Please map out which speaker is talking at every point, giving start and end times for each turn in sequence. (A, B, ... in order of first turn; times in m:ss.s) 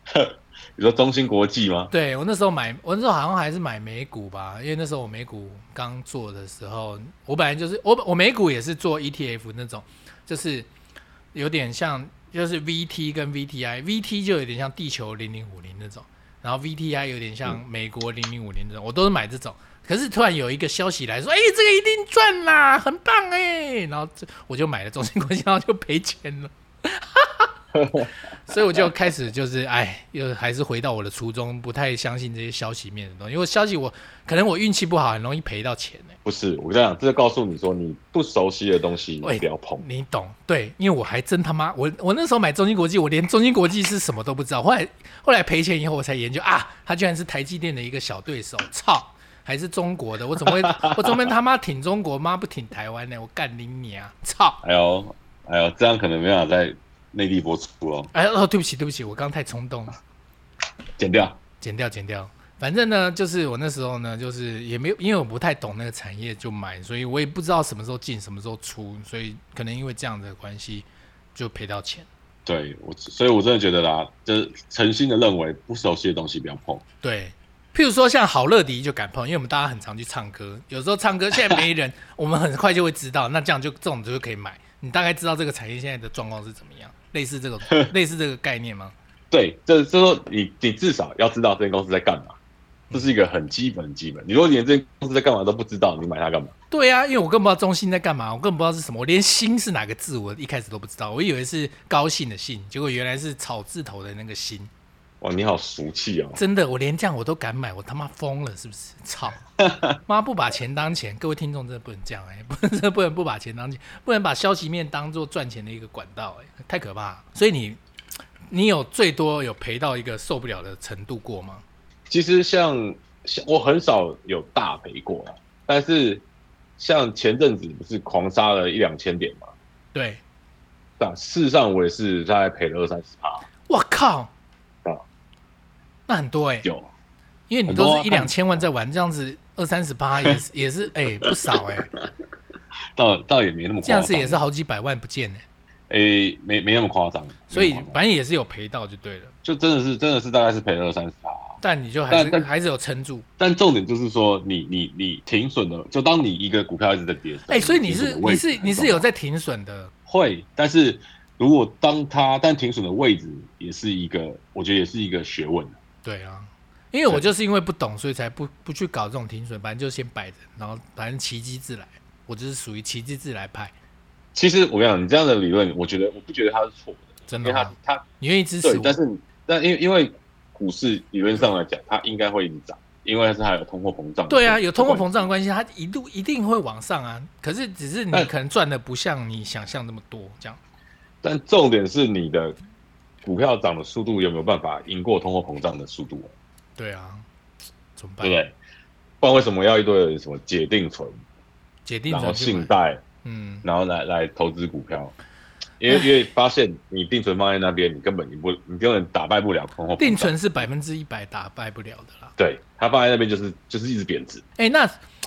0:00.1-0:01.9 A
0:01.9-0:10.7 B
0:11.3-0:27.5 B
0:27.7-0:28.1 A
0:28.5-0:36.2 B
0:36.2-0:39.8 A
0:39.2-0:54.6 B
0:50.4-0:51.3 A
0:54.6-0:58.1 A
0:58.1-1:00.0 B
1:01.0-1:01.4 A
1:01.6-1:12.1 B
1:12.5-1:16.8 A
1:17.0-1:28.9 B
1:29.3-1:32.4 A
1:32.9-1:36.5 A
1:36.7-1:44.7 B
1:45.2-1:46.4 A
1:46.4-1:49.4 B
1:49.6-1:50.0 A
1:50.1-1:57.8 B
1:58.5-2:01.6 B
2:02.1-2:06.2 A
2:06.8-2:09.5 A
2:09.9-2:10.2 B
2:11.0-2:13.4 A
2:13.7-2:14.3 B
2:16.1-2:16.7 B
2:16.6-2:16.9 A
2:17.5-2:21.9 B
2:17.7-2:18.3 A
2:21.2-2:21.6 A
2:23.0-2:24.4 A
2:23.8-2:25.4 B
2:25.9-2:28.0 A
2:27.5-2:29.4 B
2:29.4-2:31.6 A
2:31.6-2:33.3 B
2:32.1-2:32.5 A
2:33.4-2:39.1 A
2:37.5-2:39.9 B
2:40.1-2:45.8 A
2:46.0-2:53.7 B
2:54.3-2:58.0 A
2:57.3-2:59.0 B
2:58.6-3:05.3 A
3:04.3-3:10.6 B
3:11.2-3:12.6 A
3:13.2-3:16.3 A
3:16.8-3:17.3 B
3:18.0-3:18.4 B
3:18.2-3:18.6 A
3:19.2-3:21.2 A
3:21.8-3:22.7 B
3:22.1-3:23.0 A
3:23.2-3:23.7 B
3:23.6-3:25.2 A
3:25.8-3:30.7 A
3:25.9-3:26.1 B
3:30.0-3:32.3 B
3:32.4-3:34.4 A
3:34.6-3:34.9 B